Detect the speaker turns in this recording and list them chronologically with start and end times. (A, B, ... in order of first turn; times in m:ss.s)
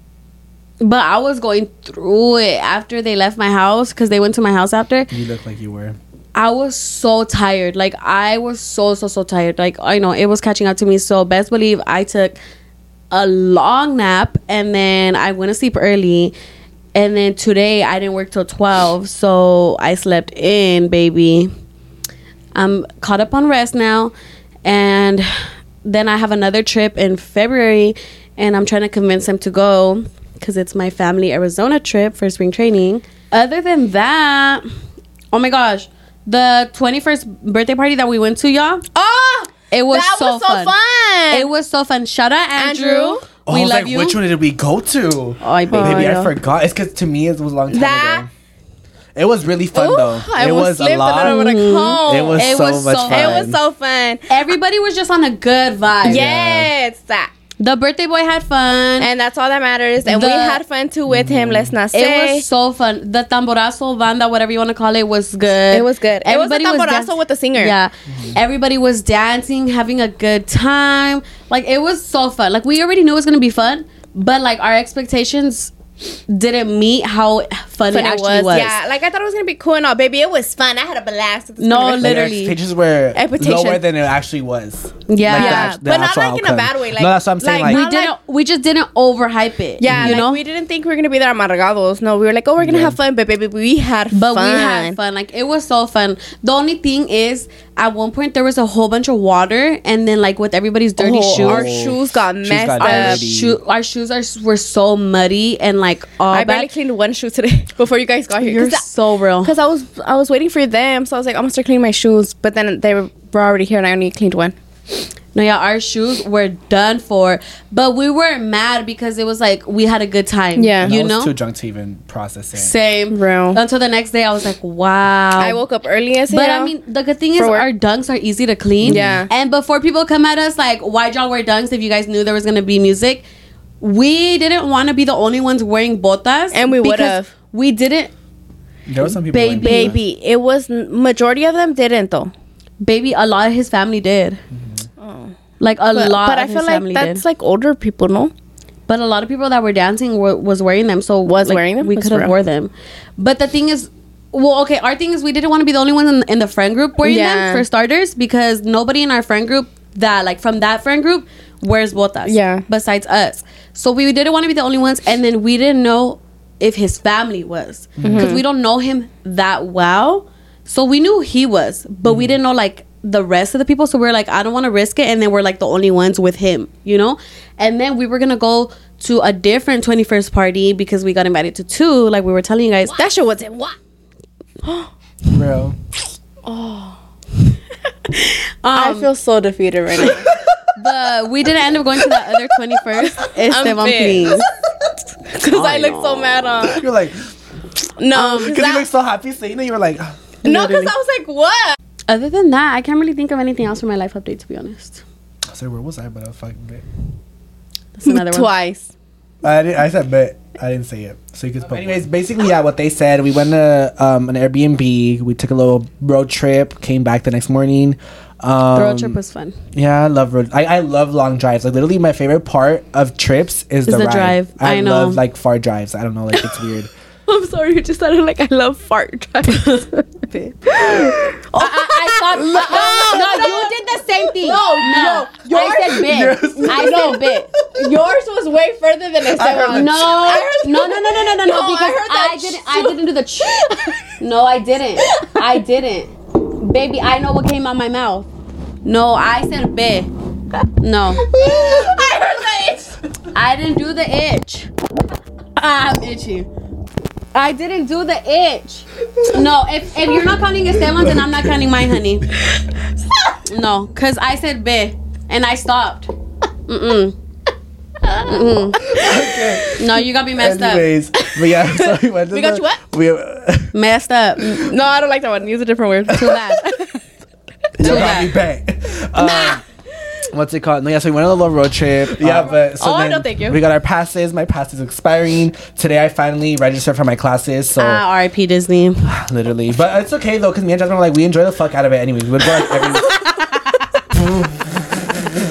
0:00.8-0:05.1 A
0:05.1-0:06.0 B
0:06.4-0:12.4 A
0:13.1-0:16.3 A
0:17.0-0:21.5 A
0:22.6-0:24.1 A
0:24.6-0:25.3 A
0:25.8-0:34.7 A
0:35.3-0:38.8 A
0:38.9-0:41.5 C
0:39.7-0:40.7 A
0:41.3-0:44.2 A
0:42.6-0:43.2 C
0:43.5-0:48.3 B
0:45.4-0:46.1 A
0:45.7-0:46.3 C
0:47.7-0:48.3 C
0:49.2-0:51.6 B
0:49.7-0:54.3 C
0:51.2-0:53.4 A
0:52.1-0:53.6 B
0:54.3-0:56.2 A
0:56.0-0:57.3 C
0:56.1-0:56.7 B
0:57.6-0:59.1 A
0:59.0-1:02.4 C
1:00.0-1:00.6 A
1:01.1-1:01.8 B
1:01.9-1:15.7 A
1:05.7-1:07.7 C
1:08.1-1:08.4 B
1:16.3-1:18.8 A
1:17.9-1:22.3 C
1:21.6-1:22.6 A
1:22.0-1:27.8 B
1:23.2-1:23.8 C
1:25.1-1:25.7 A
1:25.3-1:28.2 C
1:27.6-1:30.4 A
1:29.8-1:35.0 C
1:29.9-1:30.2 B
1:32.6-1:33.0 B
1:34.1-1:41.7 A
1:41.0-1:43.2 C
1:41.3-1:43.6 B
1:42.8-1:46.7 A
1:46.3-1:48.8 C
1:48.4-1:49.5 A
1:49.4-1:54.6 C
1:55.3-2:01.3 A
2:00.6-2:01.0 C
2:00.8-2:02.7 B
2:02.6-2:05.6 A
2:03.1-2:03.6 C
2:05.4-2:06.8 C
2:06.3-2:13.3 A
2:07.4-2:07.7 C
2:08.8-2:09.2 B
2:08.8-2:09.3 C
2:13.8-2:18.1 A
2:16.5-2:17.3 C
2:18.9-2:20.0 B
2:19.2-2:20.0 A
2:19.6-2:22.3 C
2:22.8-2:24.4 A
2:24.5-2:24.9 B
2:25.0-2:25.4 C
2:25.6-2:27.2 A
2:25.9-2:28.3 C
2:28.9-3:03.0 A
2:31.2-2:32.4 C
2:37.0-2:37.7 C
2:42.3-2:42.6 C
2:48.0-2:48.4 B
2:48.1-2:48.4 C
2:52.1-2:52.4 B
3:02.9-3:03.8 C
3:04.6-3:04.9 C
3:05.3-3:05.8 B
3:06.4-3:07.0 C
3:08.1-3:09.1 A
3:08.7-3:10.3 C
3:10.8-3:14.5 A
3:13.0-3:14.5 C
3:15.3-3:16.8 C
3:15.4-3:16.7 A
3:16.7-3:17.3 B
3:18.0-3:18.9 C
3:18.1-3:18.6 A
3:18.4-3:20.2 B
3:20.4-3:20.9 A
3:20.4-3:21.8 C
3:22.1-3:25.0 A
3:25.5-3:26.8 B
3:28.0-3:28.5 A
3:28.0-3:28.9 C
3:29.4-3:39.2 B
3:38.8-3:39.6 A
3:39.7-3:46.9 B
3:43.9-3:45.2 A
3:47.3-3:50.2 C
3:49.5-3:51.0 A
3:50.7-3:53.7 C
3:50.8-3:51.1 B
3:51.6-3:57.5 A
3:52.6-3:53.0 B
3:54.4-4:04.0 C
3:56.1-3:58.0 B
3:59.3-4:00.1 B
3:59.6-4:03.7 A
4:04.2-4:08.3 A
4:05.0-4:05.6 C
4:08.8-4:10.1 A
4:10.8-4:11.3 A
4:11.3-4:12.9 C
4:11.4-4:12.0 B
4:13.3-4:14.7 A
4:15.6-4:16.5 A
4:17.3-4:22.3 A
4:21.0-4:21.3 B
4:23.5-4:26.1 A
4:26.7-4:27.2 A
4:28.0-4:29.9 C
4:28.2-4:28.9 A
4:28.8-4:29.7 B
4:29.7-4:30.9 A
4:30.4-4:33.8 B
4:31.4-4:32.8 C
4:33.7-4:34.7 A
4:34.5-4:36.8 C
4:36.1-4:36.4 B
4:36.2-4:36.9 A
4:37.8-4:39.6 B
4:37.8-4:38.2 C
4:37.8-4:38.4 A
4:39.2-4:39.6 C
4:40.3-4:48.0 B
4:42.2-4:43.6 C
4:47.8-4:49.1 A
4:49.0-4:53.2 B
4:53.0-4:53.9 A
4:54.2-4:54.5 B